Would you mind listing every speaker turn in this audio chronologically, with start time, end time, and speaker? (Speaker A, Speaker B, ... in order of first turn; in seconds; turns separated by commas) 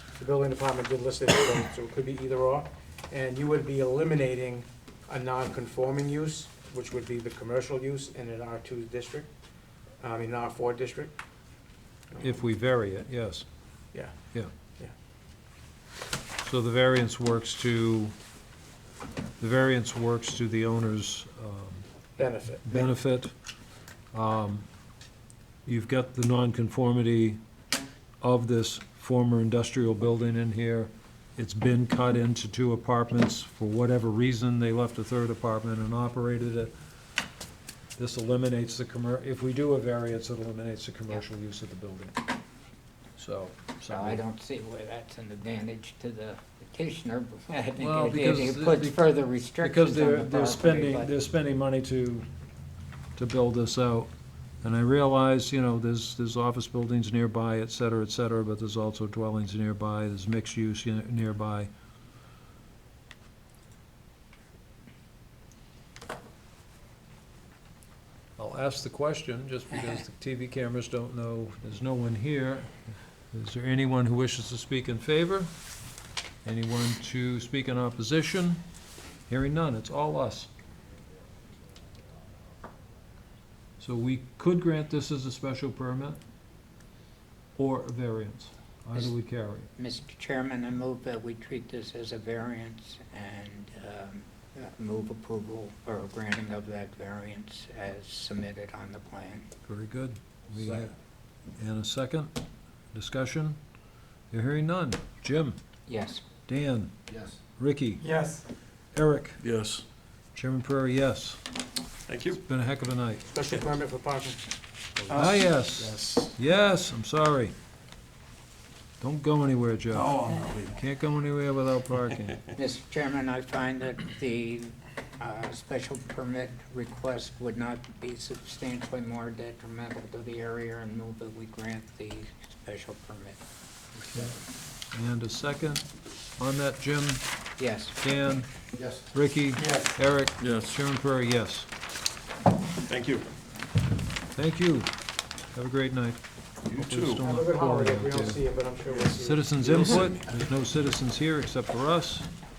Speaker A: 0.2-9.3, Speaker A: 10.0-11.1, Speaker B: 12.2-13.4, Speaker B: 16.4-18.1, Speaker B: 19.4-21.8, Speaker A: 22.2-22.9, Speaker B: 22.6-23.3, Speaker B: 24.1-24.7, Speaker B: 25.6-27.4, Speaker B: 28.2-36.7, Speaker B: 38.0-42.1, Speaker B: 43.2-44.2, Speaker C: 43.8-51.1, Speaker B: 47.8-49.0, Speaker B: 49.6-52.3, Speaker B: 53.1-54.1, Speaker B: 54.6-61.7, Speaker B: 68.4-72.7, Speaker B: 73.3-75.5, Speaker B: 76.4-78.6, Speaker B: 79.3-80.5, Speaker B: 83.8-86.2, Speaker B: 87.5-89.7, Speaker C: 89.8-99.5, Speaker B: 99.6-100.9, Speaker B: 101.6-102.3, Speaker B: 102.9-103.6, Speaker B: 104.3-105.6, Speaker C: 105.9-106.2, Speaker B: 106.5-107.0, Speaker B: 107.5-108.1, Speaker B: 108.9-109.4, Speaker D: 109.4-109.8, Speaker B: 110.3-111.4, Speaker D: 112.1-112.4, Speaker B: 112.4-113.2, Speaker A: 113.3-114.4, Speaker D: 115.1-116.3, Speaker B: 115.1-117.5, Speaker B: 119.0-122.4, Speaker D: 119.9-120.7, Speaker C: 122.5-133.4, Speaker C: 133.9-134.3, Speaker B: 134.9-135.8, Speaker B: 136.4-137.2, Speaker C: 137.6-138.0, Speaker B: 138.0-138.5, Speaker B: 139.0-141.7, Speaker A: 139.6-139.9, Speaker D: 142.9-143.3, Speaker B: 144.3-144.9, Speaker B: 145.5-148.4, Speaker D: 146.7-147.2, Speaker A: 147.2-150.0, Speaker B: 149.2-152.3, Speaker D: 149.7-150.2